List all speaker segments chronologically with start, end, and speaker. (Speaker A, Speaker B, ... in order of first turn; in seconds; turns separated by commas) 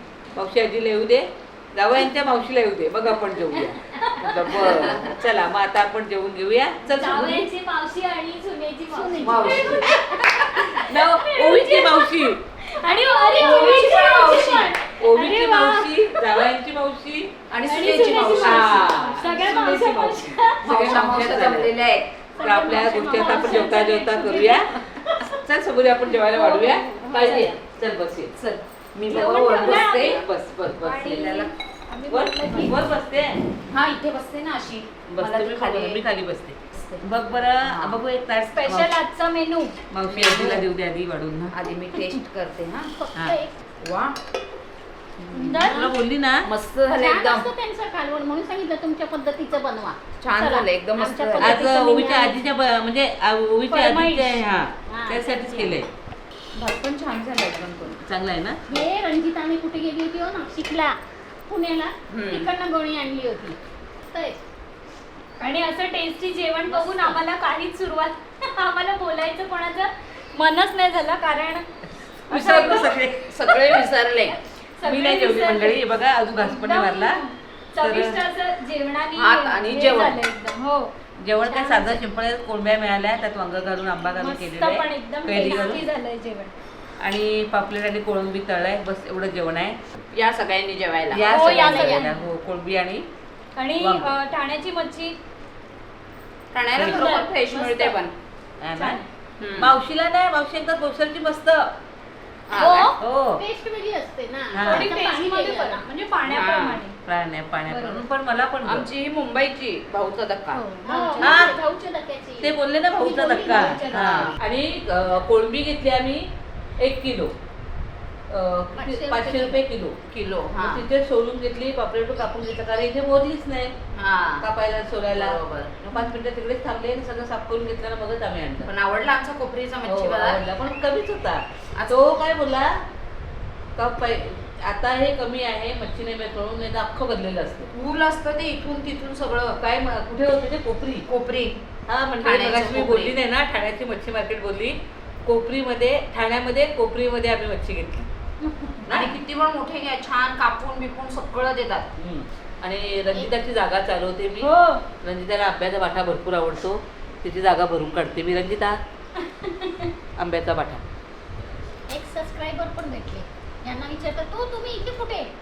Speaker A: 0.3-7.5, Speaker B: 3.9-4.6, Speaker B: 6.9-16.5, Speaker C: 9.0-10.7, Speaker A: 10.7-12.4, Speaker D: 13.2-13.9, Speaker C: 13.4-14.8, Speaker A: 15.0-17.4, Speaker C: 17.5-19.1, Speaker B: 17.6-21.3, Speaker A: 18.4-21.7, Speaker C: 20.6-22.1, Speaker B: 22.4-25.4, Speaker A: 22.4-24.8, Speaker C: 23.1-23.7, Speaker A: 25.4-28.3, Speaker B: 26.1-27.6, Speaker C: 26.9-27.4, Speaker C: 28.4-30.2, Speaker A: 28.9-31.5, Speaker B: 29.1-30.2, Speaker B: 30.8-32.8, Speaker A: 32.1-33.4, Speaker C: 33.7-36.0, Speaker A: 35.1-38.9, Speaker C: 36.7-37.0, Speaker C: 37.6-38.0, Speaker B: 38.5-39.8, Speaker A: 39.9-41.5, Speaker C: 40.1-40.7, Speaker C: 41.5-42.9, Speaker D: 43.0-43.5, Speaker A: 43.1-43.4, Speaker C: 43.8-44.2, Speaker C: 45.3-45.8, Speaker B: 45.3-46.0, Speaker A: 45.5-46.5, Speaker C: 46.5-47.5, Speaker D: 46.9-52.4, Speaker C: 50.2-51.7, Speaker A: 51.4-55.9, Speaker B: 53.7-54.5, Speaker D: 54.9-55.6, Speaker C: 56.5-58.0, Speaker A: 58.0-58.6, Speaker D: 58.7-64.4, Speaker C: 62.1-62.5, Speaker B: 65.4-71.6, Speaker D: 66.7-67.2, Speaker B: 72.3-73.0, Speaker A: 72.3-73.3, Speaker C: 72.6-74.4, Speaker B: 73.5-73.8, Speaker B: 74.8-75.8, Speaker A: 74.8-77.2, Speaker B: 76.3-80.9, Speaker A: 77.8-78.2, Speaker C: 79.2-80.2, Speaker A: 81.2-85.8, Speaker B: 81.5-82.0, Speaker B: 84.1-86.5, Speaker A: 87.0-89.8, Speaker C: 90.1-92.0, Speaker A: 91.1-93.1, Speaker B: 91.2-92.2, Speaker B: 93.6-95.2, Speaker A: 93.8-94.1, Speaker C: 96.5-98.1, Speaker A: 96.8-97.1, Speaker B: 96.8-98.0, Speaker A: 98.6-99.0, Speaker B: 98.8-99.0, Speaker C: 99.4-99.7, Speaker A: 99.6-101.7, Speaker C: 102.5-102.9, Speaker D: 102.5-105.8, Speaker A: 103.0-103.4, Speaker A: 104.5-104.9, Speaker B: 104.6-107.0, Speaker C: 106.2-106.8, Speaker A: 107.0-108.8, Speaker B: 107.7-108.0, Speaker C: 108.6-110.6, Speaker D: 110.5-114.0, Speaker B: 110.8-111.6, Speaker A: 111.2-111.5, Speaker A: 112.4-117.3, Speaker C: 113.6-114.3, Speaker A: 118.3-120.0, Speaker D: 118.8-119.6, Speaker C: 120.1-120.8, Speaker A: 120.6-123.7, Speaker C: 123.9-124.5, Speaker A: 124.4-128.7, Speaker C: 125.1-125.8, Speaker C: 128.7-130.4, Speaker A: 129.8-132.8, Speaker C: 131.7-132.2, Speaker A: 133.8-137.7, Speaker C: 137.7-139.6, Speaker A: 139.6-141.1, Speaker C: 141.1-141.6, Speaker A: 141.9-148.1, Speaker C: 142.2-143.2, Speaker B: 148.4-148.8, Speaker A: 148.8-149.2, Speaker C: 148.9-151.9, Speaker A: 152.0-154.5, Speaker B: 154.4-154.8, Speaker A: 155.0-158.8, Speaker B: 159.4-159.9, Speaker A: 160.2-160.8, Speaker D: 161.9-165.3